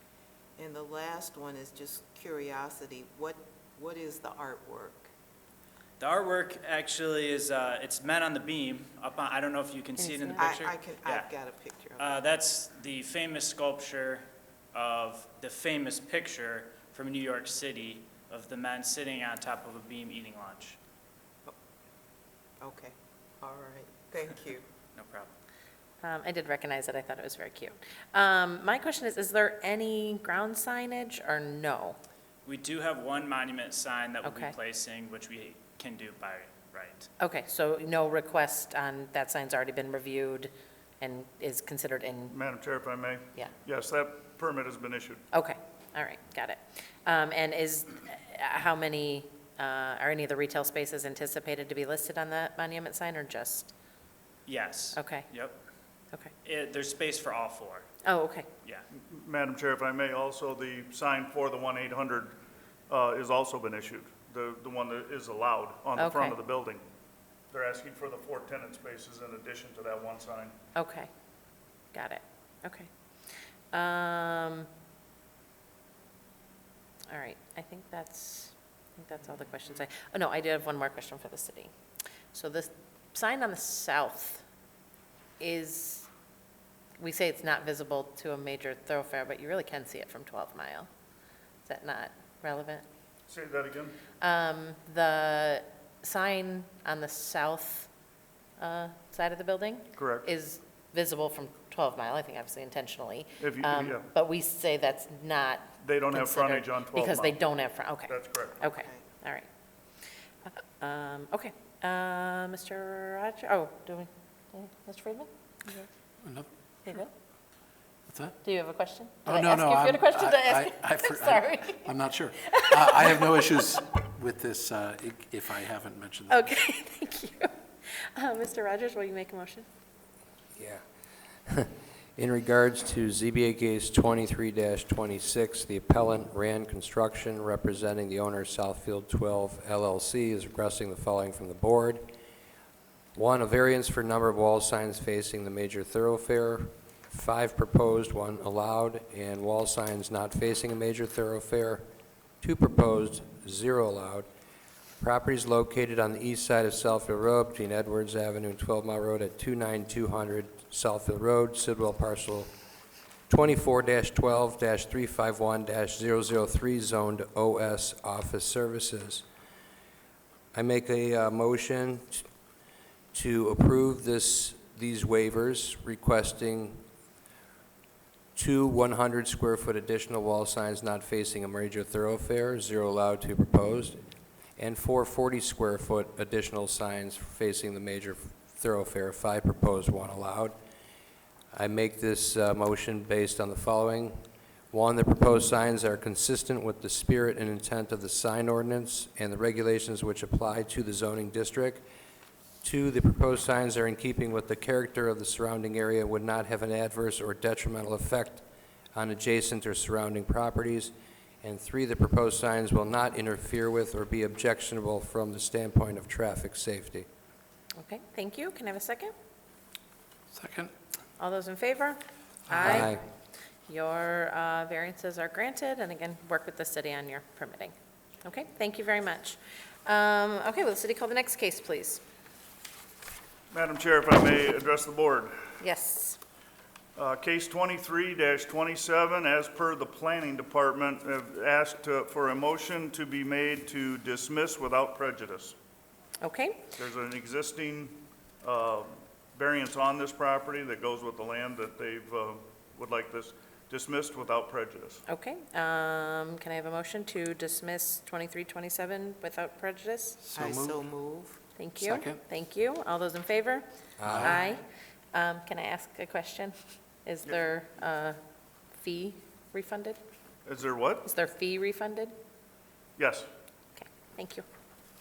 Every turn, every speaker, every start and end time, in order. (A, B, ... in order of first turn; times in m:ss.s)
0:00.6-0:05.1 A
0:06.0-0:11.3 B
0:10.0-0:10.5 C
0:10.4-0:12.3 A
0:12.0-0:20.8 B
0:22.6-0:24.7 A
0:25.0-0:25.3 B
0:26.0-0:32.0 C
0:32.4-0:37.1 B
0:34.2-0:34.6 C
0:37.2-0:42.4 C
0:42.3-0:45.2 D
0:45.3-0:53.7 C
0:54.5-0:55.6 B
0:54.9-0:55.3 C
0:56.4-0:57.9 B
0:58.0-0:58.5 C
0:59.0-1:02.4 D
1:02.9-1:06.8 D
1:06.0-1:06.4 C
1:07.5-1:10.6 D
1:10.8-1:11.1 C
1:11.9-1:12.9 C
1:13.7-1:14.7 C
1:17.1-1:21.7 C
1:22.3-1:24.4 C
1:25.4-1:26.1 C
1:27.0-1:30.9 C
1:31.6-1:32.8 C
1:33.3-1:34.0 D
1:34.2-1:37.9 C
1:38.6-1:49.5 C
1:40.0-1:40.3 D
1:43.4-1:44.1 D
1:45.8-1:47.4 D
1:48.1-1:48.6 D
1:48.6-1:49.0 A
1:50.5-1:55.8 C
1:56.2-1:56.5 E
1:58.1-1:58.4 E
1:58.4-2:03.3 C
1:59.3-2:06.5 E
2:06.3-2:09.7 C
2:10.6-2:10.8 F
2:11.5-2:22.1 F
2:23.2-2:31.9 F
2:32.4-2:34.3 F
2:35.0-2:42.5 F
2:43.3-2:49.2 F
2:50.5-2:52.3 F
2:53.1-2:56.8 F
2:58.4-3:04.0 F
3:04.6-3:10.6 F
3:11.5-3:21.8 F
3:22.6-3:37.1 F
3:37.8-3:39.1 C
3:40.3-3:40.7 E
3:41.2-3:42.9 C
3:42.6-3:43.0 F
3:43.7-3:52.0 C
3:53.5-3:55.5 D
3:55.6-3:56.2 C
3:57.0-4:05.6 D
4:06.2-4:06.7 C
4:06.8-4:15.0 D
4:15.1-4:20.2 C
4:20.2-4:20.8 E
4:20.3-4:21.4 A
4:21.6-4:23.7 C
4:21.8-4:22.2 E
4:24.0-4:24.4 F
4:24.1-4:24.4 E
4:24.2-4:28.2 C
4:28.8-4:30.0 C
4:30.5-4:31.1 D
4:31.0-4:32.1 C
4:33.0-4:33.3 D
4:33.8-4:34.4 C